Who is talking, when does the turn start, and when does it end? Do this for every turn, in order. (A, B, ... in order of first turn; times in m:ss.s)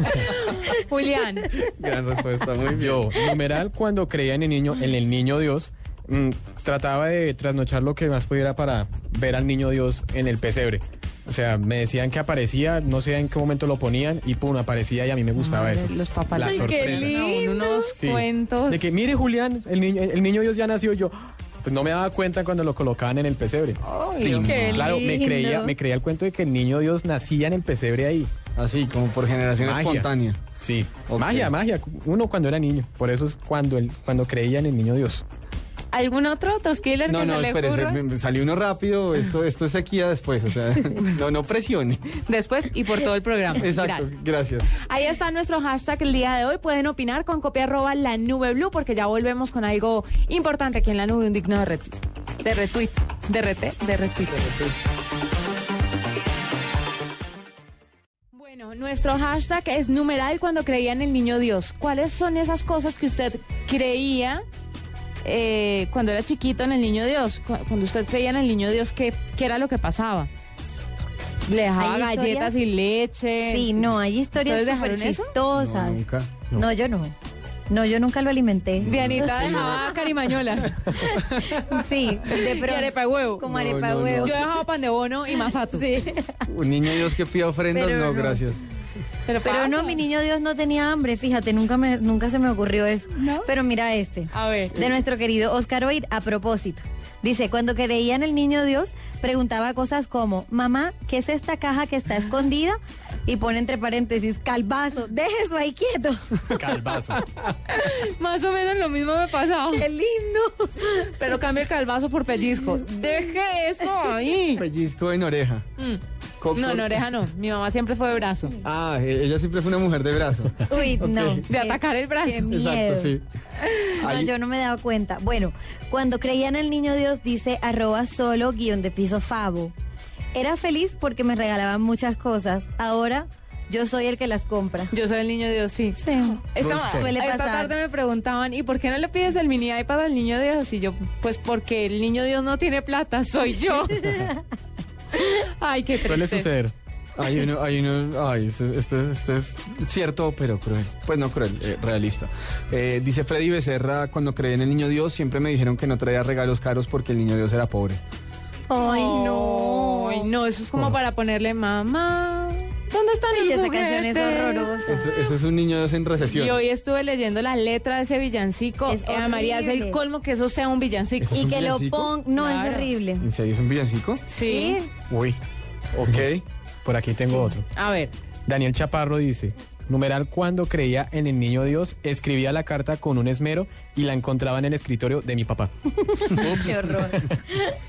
0:00.2-0:01.5 A
0:01.6-0:03.1 B
0:02.7-0:17.0 C
0:15.4-0:18.9 A
0:16.4-0:17.9 D
0:16.8-0:17.2 B
0:18.0-0:23.8 C
0:23.8-0:24.9 A
0:24.2-0:24.9 B
0:24.4-0:25.7 D
0:24.6-0:28.3 C
0:28.6-0:30.4 B
0:29.6-0:30.1 C
0:30.6-0:35.2 C
0:31.1-0:31.5 B
0:35.9-0:38.0 A
0:37.1-0:42.1 B
0:42.2-0:44.0 A
0:43.6-0:44.7 B
0:44.7-0:54.6 A
0:54.3-0:54.7 B
0:58.3-1:04.4 A
1:05.2-1:10.3 A
1:11.4-1:13.7 A
1:11.8-1:12.5 D
1:13.4-1:16.0 D
1:14.4-1:15.3 A
1:15.5-1:16.6 B
1:16.5-1:17.1 D
1:17.7-1:19.8 D
1:18.8-1:20.1 B
1:18.8-1:20.8 A
1:20.8-1:21.8 B
1:20.9-1:24.5 D
1:22.3-1:23.4 A
1:23.4-1:24.4 B
1:24.2-1:25.8 A
1:25.5-1:26.4 D
1:26.5-1:28.6 B
1:27.7-1:28.4 D
1:29.2-1:30.0 A
1:29.4-1:46.6 D
1:33.2-1:33.5 A
1:34.3-1:34.7 A
1:46.5-1:47.2 C
1:47.7-1:49.9 A
1:49.7-1:51.0 D
1:51.0-1:54.6 A
1:54.6-1:55.6 B
1:56.4-1:57.0 B
1:56.6-1:58.5 A
1:58.6-2:01.4 B
2:00.7-2:03.1 D
2:01.5-2:02.5 A
2:02.5-2:03.2 B
2:04.0-2:09.7 D
2:04.0-2:04.3 B
2:10.3-2:14.9 D
2:14.9-2:24.3 A
2:16.0-2:17.7 D
2:16.6-2:17.1 C
2:25.2-2:26.5 A
2:26.0-2:26.7 C
2:27.2-2:38.0 B
2:38.7-2:40.3 D
2:38.8-2:44.7 A
2:43.3-2:45.0 D
2:44.8-2:46.6 B
2:46.2-2:51.5 A
2:48.9-2:50.0 D
2:51.2-2:52.1 B
2:51.3-2:53.3 D
2:52.4-2:52.9 A
2:53.2-2:54.3 B
2:54.3-2:54.8 A
2:54.4-2:54.8 D
2:55.1-2:55.4 B
2:55.9-2:56.4 B
2:56.8-2:57.6 C
2:57.7-2:58.1 A
2:58.5-3:05.7 C
3:06.0-3:07.7 D
3:06.3-3:06.8 C